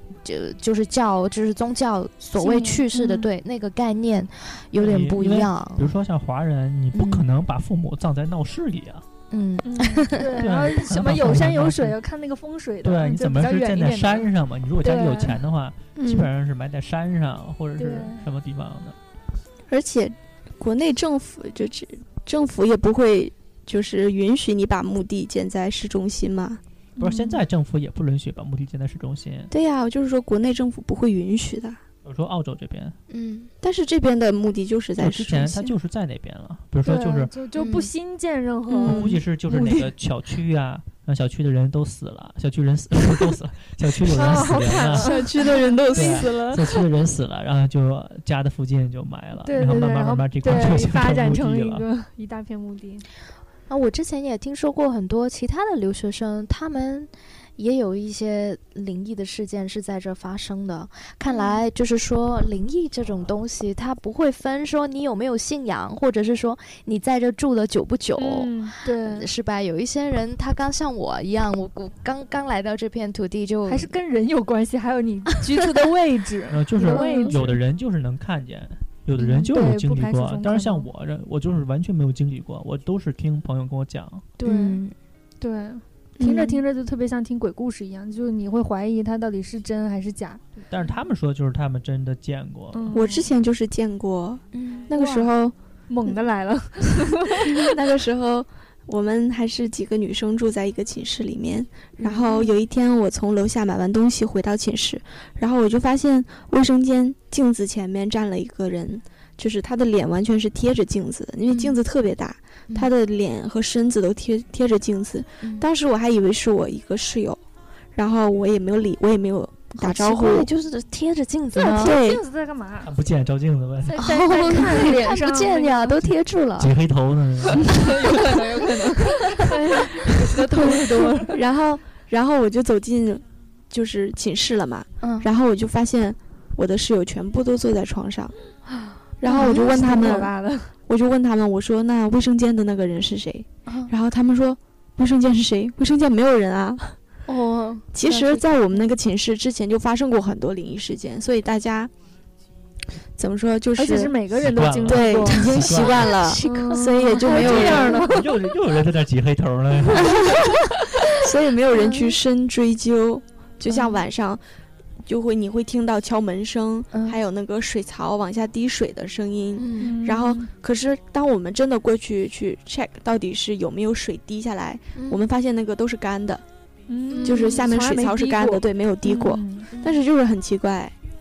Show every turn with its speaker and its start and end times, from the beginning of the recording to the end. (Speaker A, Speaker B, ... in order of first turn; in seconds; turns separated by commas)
Speaker A: 0.2-5.9, Speaker B: 2.4-3.3, Speaker C: 4.8-9.0, Speaker A: 6.9-7.2, Speaker A: 9.3-10.4, Speaker B: 9.6-14.3, Speaker C: 10.4-12.0, Speaker C: 12.8-18.9, Speaker B: 14.8-15.4, Speaker D: 15.9-16.3, Speaker B: 17.8-18.2, Speaker D: 19.7-26.6, Speaker C: 27.0-29.5, Speaker A: 27.0-27.4, Speaker D: 29.5-31.8, Speaker C: 32.0-33.0, Speaker A: 33.1-33.5, Speaker D: 33.6-35.7, Speaker C: 35.0-37.3, Speaker B: 36.8-39.9, Speaker A: 37.5-37.9, Speaker D: 38.7-39.2, Speaker C: 38.8-45.3, Speaker B: 44.1-46.4, Speaker D: 44.9-46.8, Speaker C: 45.9-51.8, Speaker B: 49.4-53.0, Speaker A: 53.7-73.9, Speaker B: 61.3-61.6, Speaker B: 68.2-69.3, Speaker B: 73.7-77.6, Speaker C: 76.5-84.3, Speaker A: 76.9-77.3, Speaker B: 79.3-80.9, Speaker B: 84.4-84.8, Speaker A: 84.4-84.9, Speaker B: 85.4-90.6, Speaker D: 86.2-86.6, Speaker C: 90.7-93.1, Speaker B: 92.7-93.2, Speaker D: 92.9-95.5, Speaker A: 94.5-94.9, Speaker B: 94.9-95.3, Speaker B: 95.9-97.7, Speaker D: 97.4-117.4, Speaker A: 102.0-102.5, Speaker A: 111.5-111.8, Speaker A: 115.4-115.7, Speaker D: 117.9-120.5, Speaker A: 119.8-122.0, Speaker D: 121.6-122.2, Speaker B: 121.6-122.9, Speaker C: 122.8-124.6, Speaker B: 123.8-126.0, Speaker A: 124.0-126.7, Speaker C: 126.6-128.2, Speaker B: 127.7-131.4, Speaker A: 127.8-129.6, Speaker D: 130.5-138.3, Speaker A: 135.0-135.3, Speaker A: 138.7-140.2, Speaker D: 139.2-140.3, Speaker B: 139.2-140.7, Speaker D: 140.9-147.0, Speaker A: 143.7-143.9, Speaker A: 147.3-148.8, Speaker D: 147.9-151.9, Speaker D: 153.2-154.2, Speaker B: 153.8-155.7, Speaker C: 154.3-156.2, Speaker D: 154.9-158.1, Speaker A: 155.5-158.0, Speaker B: 156.3-158.2, Speaker C: 157.3-160.4, Speaker D: 160.0-160.3, Speaker D: 161.1-164.4, Speaker A: 161.8-162.0, Speaker A: 163.7-164.0, Speaker D: 165.0-176.4, Speaker A: 166.9-167.2, Speaker A: 169.6-170.0, Speaker B: 169.8-170.5, Speaker A: 174.9-175.2, Speaker B: 176.9-179.7, Speaker A: 177.1-177.7, Speaker D: 177.2-180.9, Speaker A: 179.7-180.0